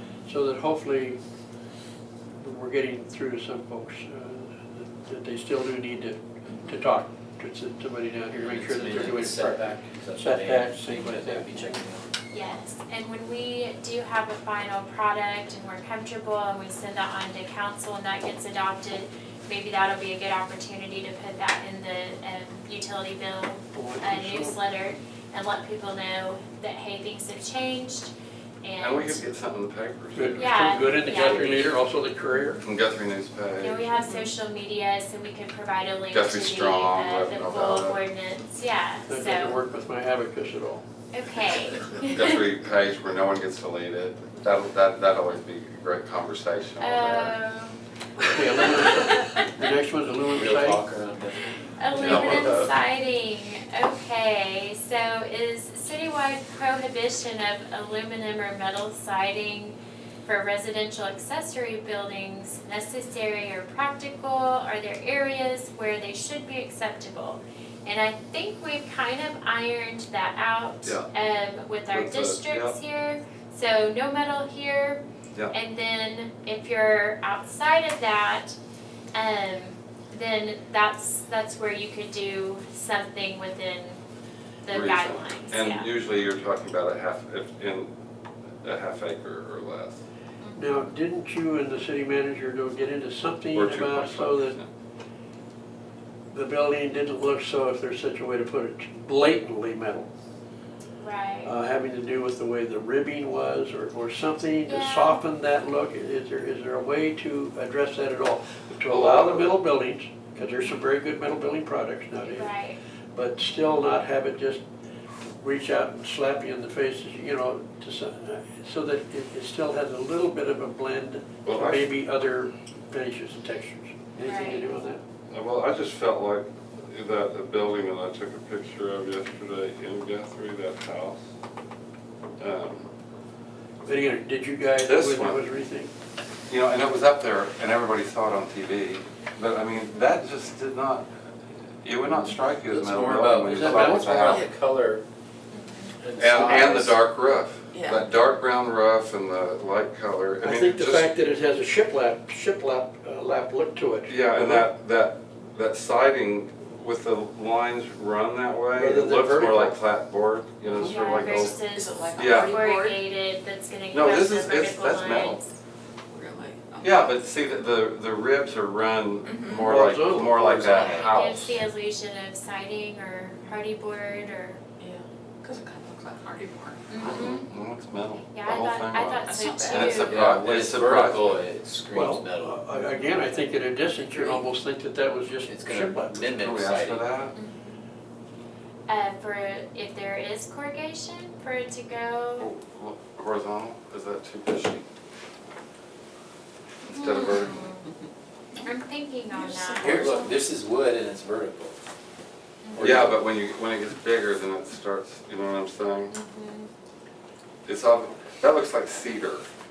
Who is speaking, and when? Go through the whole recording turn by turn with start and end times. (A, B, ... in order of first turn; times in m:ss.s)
0:00.2-0:01.2 A
0:02.4-0:11.8 A
0:08.4-0:12.1 B
0:12.3-0:29.2 C
0:23.7-0:24.6 A
0:28.8-0:31.6 D
0:30.1-0:32.6 A
0:30.4-0:31.7 C
0:32.6-0:33.9 D
0:33.6-0:39.6 C
0:36.1-0:38.0 D
0:39.1-0:40.8 A
0:41.1-0:42.4 C
0:42.0-0:47.4 D
0:46.8-0:47.8 C
0:48.3-0:50.8 A
0:48.4-0:49.5 C
0:50.3-0:52.7 B
0:51.6-1:18.6 C
0:52.0-0:52.6 A
0:52.0-0:52.6 D
1:10.8-1:11.1 D
1:11.9-1:12.8 D
1:19.1-1:24.0 C
1:24.6-1:25.9 C
1:24.7-1:27.9 D
1:28.6-1:30.0 D
1:30.4-1:30.8 C
1:30.6-1:34.6 A
1:33.5-1:34.7 D
1:36.3-1:40.1 A
1:41.0-1:41.5 C
1:41.4-1:52.5 A
1:44.6-1:45.2 C
1:48.9-1:49.6 D
1:52.2-1:52.8 C
1:53.1-1:54.6 A
1:55.4-2:05.0 A
2:01.4-2:01.9 D
2:04.2-2:04.6 C
2:05.3-2:11.2 D
2:12.4-2:12.9 D
2:13.8-2:15.9 A
2:14.8-2:15.4 D
2:16.5-2:21.3 D
2:21.8-2:24.5 D
2:22.6-2:25.0 B
2:23.5-2:24.4 A
2:25.5-2:26.0 C
2:26.0-2:27.0 B
2:26.2-2:31.1 D
2:27.7-2:28.0 E
2:30.4-2:34.7 A
2:34.1-2:41.6 D
2:38.7-2:39.8 A
2:40.6-2:40.9 A
2:40.8-2:45.5 C
2:40.9-2:43.0 E
2:42.1-2:42.6 D
2:43.9-2:45.4 D
2:46.1-2:47.0 E
2:46.8-2:51.6 D
2:49.3-2:49.6 E
2:49.6-2:51.2 A
2:50.8-2:54.6 C
2:54.8-2:56.8 E
2:56.9-2:57.5 C
2:57.0-3:01.4 D
2:58.3-3:00.2 C
2:59.2-2:59.9 E
2:59.9-3:02.6 B
3:01.9-3:06.3 A
3:02.7-3:03.5 C
3:05.4-3:07.1 B
3:06.3-3:07.3 D
3:07.3-3:07.8 C
3:08.9-3:12.5 C
3:12.4-3:14.8 D
3:16.9-3:17.7 D
3:16.9-3:17.9 C
3:18.6-3:20.3 C
3:19.3-3:20.2 E
3:19.7-3:21.8 B
3:22.6-3:23.1 C
3:22.8-3:26.1 D
3:22.8-3:23.2 B
3:26.1-3:26.7 C
3:27.6-3:29.5 D